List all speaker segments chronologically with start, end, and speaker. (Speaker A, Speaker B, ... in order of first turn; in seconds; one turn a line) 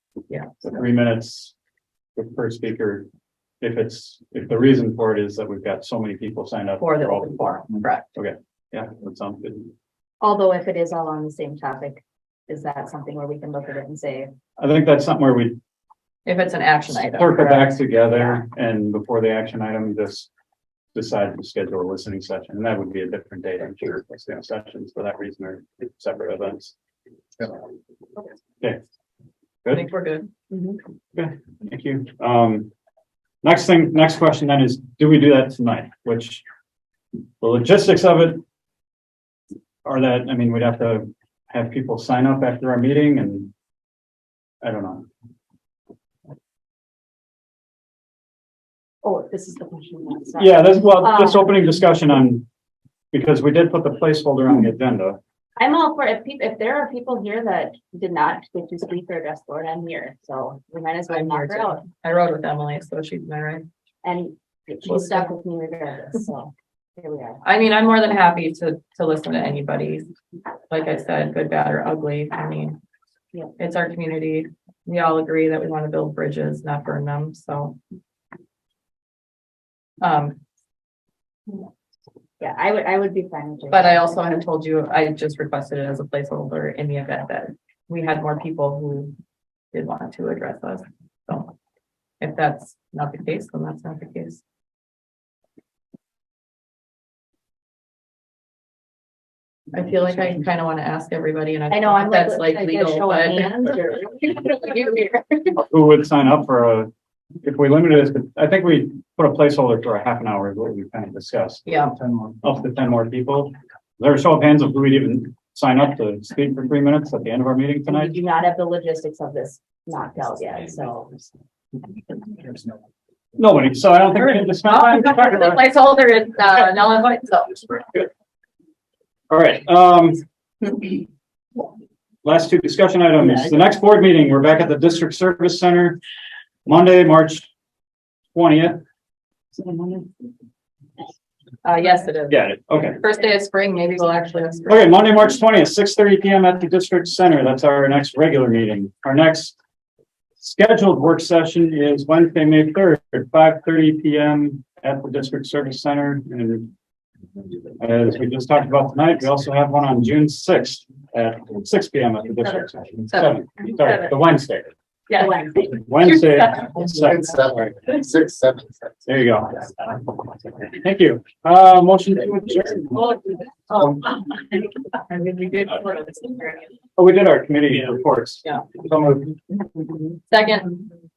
Speaker A: 0.6-1.5
Speaker A: 2.2-3.1
Speaker A: 3.6-7.5
Speaker B: 6.8-8.1
Speaker A: 8.2-9.7
Speaker C: 10.2-14.3
Speaker A: 14.6-15.6
Speaker B: 16.3-17.8
Speaker A: 16.9-20.3
Speaker A: 20.9-26.8
Speaker B: 29.7-30.3
Speaker C: 30.5-30.8
Speaker A: 31.1-32.7
Speaker A: 33.4-36.4
Speaker A: 37.4-38.4
Speaker A: 39.9-43.5
Speaker A: 44.6-45.1
Speaker C: 49.0-51.5
Speaker A: 50.4-52.5
Speaker A: 53.1-55.2
Speaker C: 55.6-61.8
Speaker B: 61.1-63.7
Speaker C: 64.0-67.4
Speaker B: 64.9-65.3
Speaker B: 67.4-70.1
Speaker B: 70.7-72.8
Speaker B: 73.6-77.8
Speaker B: 80.0-80.4
Speaker C: 82.4-84.0
Speaker B: 83.7-89.1
Speaker B: 89.7-91.5
Speaker B: 92.2-94.4
Speaker B: 99.7-103.5
Speaker C: 101.7-105.5
Speaker A: 105.6-106.9
Speaker A: 107.4-118.2
Speaker B: 111.7-111.9
Speaker C: 117.9-121.3
Speaker A: 123.4-125.6
Speaker B: 124.3-128.1
Speaker A: 129.3-130.2
Speaker A: 132.2-136.0
Speaker A: 136.7-137.5
Speaker A: 138.3-138.8
Speaker B: 141.6-144.9
Speaker A: 142.3-143.0
Speaker A: 144.7-149.6
Speaker A: 150.4-156.7
Speaker A: 157.8-164.7
Speaker B: 163.1-164.1
Speaker B: 165.1-166.7
Speaker A: 165.7-167.8
Speaker D: 166.9-168.8
Speaker A: 169.1-173.2
Speaker B: 173.9-174.2
Speaker B: 174.9-176.7
Speaker A: 177.0-179.4
Speaker B: 180.3-180.8